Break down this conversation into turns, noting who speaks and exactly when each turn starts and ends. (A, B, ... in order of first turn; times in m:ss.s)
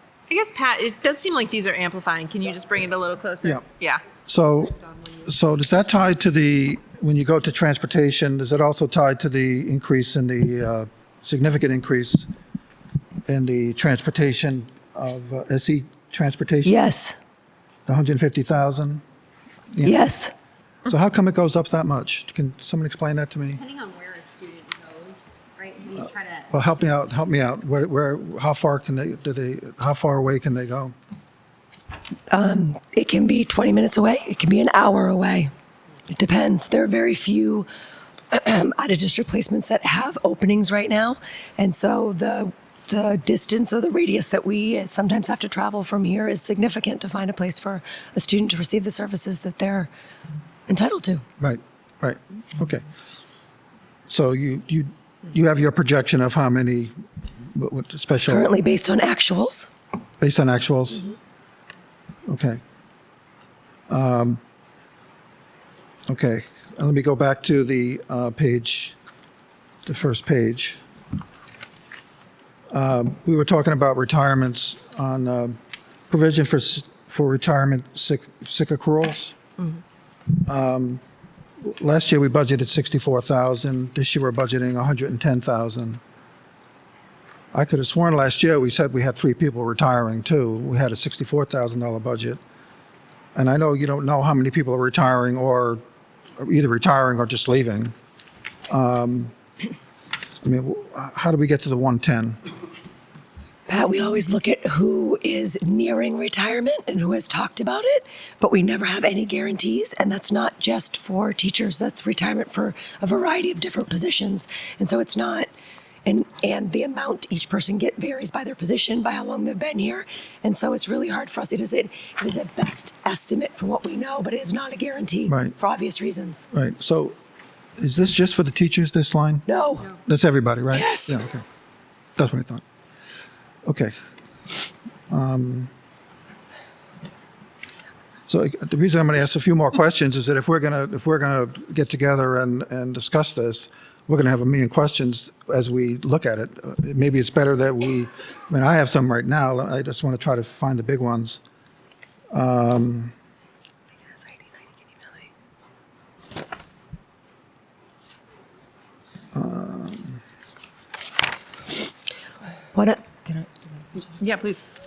0:00.3-0:04.0 A
0:04.2-0:12.3 B
0:13.3-0:16.8 B
0:16.6-0:17.1 C
0:17.9-0:19.0 B
0:19.7-0:20.0 B
0:19.8-0:20.3 C
0:20.8-0:23.6 B
0:23.5-0:26.5 D
0:26.0-0:30.9 B
0:32.3-0:35.5 C
0:36.1-0:37.7 C
0:38.3-0:49.9 C
0:50.7-0:51.2 C
0:51.4-0:52.8 B
0:54.1-0:56.9 B
0:57.5-0:58.5 B
0:58.2-0:59.7 C
1:00.2-1:01.1 B
1:02.3-1:02.6 B
1:03.9-1:04.4 B
1:06.1-1:08.9 B
1:09.8-1:10.8 B
1:12.7-1:15.6 B
1:16.1-1:19.4 B
1:20.4-1:21.0 B
1:21.6-1:26.0 B
1:27.5-1:32.4 B
1:33.3-1:35.8 B
1:36.4-1:37.9 B
1:38.7-1:39.3 B
1:40.4-1:42.4 B
1:43.7-1:55.5 C
1:56.0-2:06.4 C
2:05.3-2:05.5 B
2:06.5-2:07.2 B
2:07.8-2:09.4 B
2:09.5-2:10.0 C
2:10.0-2:11.4 B
2:10.7-2:11.2 C
2:12.2-2:12.6 B
2:13.6-2:13.9 B
2:15.1-2:15.7 B
2:18.3-2:31.4 B
2:32.3-2:33.1 B
2:39.3-2:40.2 B
2:42.7-2:44.0 C
2:44.2-2:44.6 A